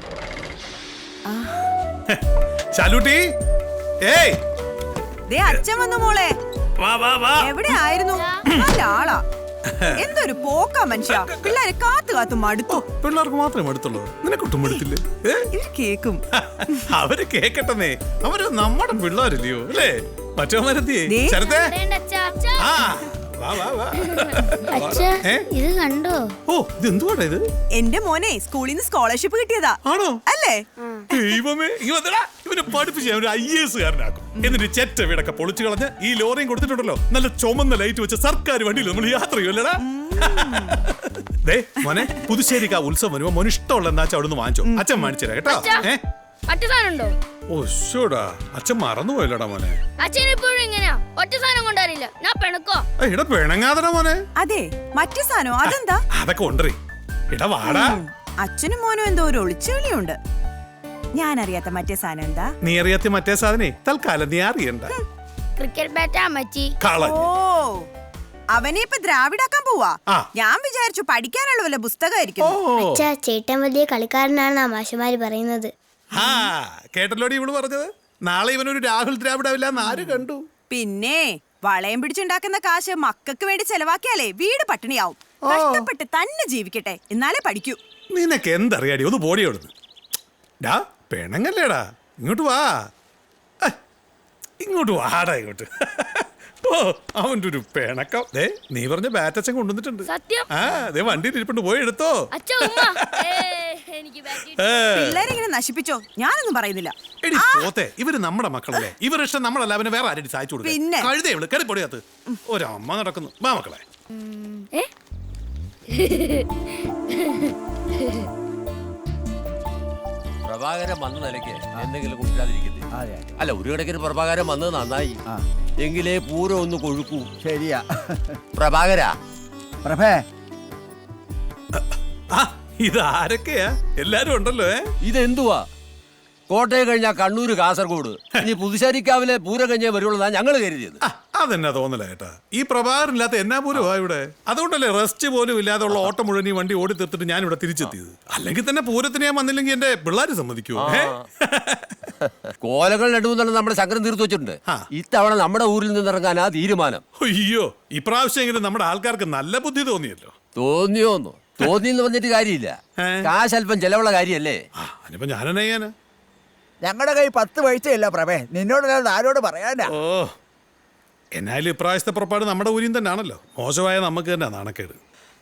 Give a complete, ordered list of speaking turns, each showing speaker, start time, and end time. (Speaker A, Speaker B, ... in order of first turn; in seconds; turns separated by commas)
Speaker A: 1.2-1.5, Speaker B: 2.1-3.2, Speaker B: 4.0-4.4, Speaker A: 5.3-6.3, Speaker B: 6.8-7.8, Speaker A: 7.4-9.2, Speaker B: 9.7-10.1, Speaker A: 10.0-12.8, Speaker B: 11.1-11.5, Speaker B: 12.7-15.5, Speaker A: 15.5-16.2, Speaker B: 16.3-21.8, Speaker A: 21.1-21.4, Speaker C: 21.5-22.7, Speaker B: 22.6-25.5, Speaker B: 26.5-27.4, Speaker A: 27.8-29.8, Speaker B: 29.8-30.2, Speaker A: 30.3-30.6, Speaker B: 31.1-46.0, Speaker A: 34.4-34.6, Speaker A: 39.9-40.8, Speaker A: 44.7-45.1, Speaker C: 45.5-45.8, Speaker C: 46.5-47.1, Speaker B: 47.5-49.8, Speaker C: 50.0-52.9, Speaker B: 53.0-54.2, Speaker A: 54.4-56.0, Speaker B: 55.6-56.8, Speaker B: 57.3-58.0, Speaker A: 57.6-60.2, Speaker A: 61.1-62.5, Speaker B: 62.6-64.9, Speaker C: 65.6-66.7, Speaker B: 66.8-67.2, Speaker A: 67.0-67.8, Speaker A: 68.5-72.6, Speaker B: 72.4-73.0, Speaker D: 72.8-75.7, Speaker B: 76.1-80.4, Speaker A: 76.2-76.5, Speaker A: 80.7-87.8, Speaker B: 85.5-85.8, Speaker B: 88.1-89.7, Speaker B: 90.6-92.7, Speaker B: 94.6-103.5, Speaker C: 100.0-100.5, Speaker C: 102.3-104.8, Speaker B: 104.3-105.2, Speaker A: 104.9-107.7, Speaker B: 107.2-113.8, Speaker A: 110.6-111.1, Speaker C: 114.2-114.9, Speaker C: 115.9-116.4, Speaker E: 120.4-122.8, Speaker F: 123.0-123.2, Speaker E: 123.4-125.2, Speaker E: 125.8-127.3, Speaker F: 127.4-127.8, Speaker E: 128.5-129.2, Speaker F: 129.8-130.2, Speaker B: 131.7-134.8, Speaker E: 135.0-135.7, Speaker E: 136.5-141.0, Speaker B: 141.0-152.0, Speaker E: 150.8-151.2, Speaker E: 152.6-157.0, Speaker B: 157.2-160.3, Speaker E: 160.6-164.6, Speaker B: 163.0-163.3, Speaker B: 164.8-165.9, Speaker F: 166.9-169.9, Speaker B: 169.8-170.3, Speaker B: 171.3-175.0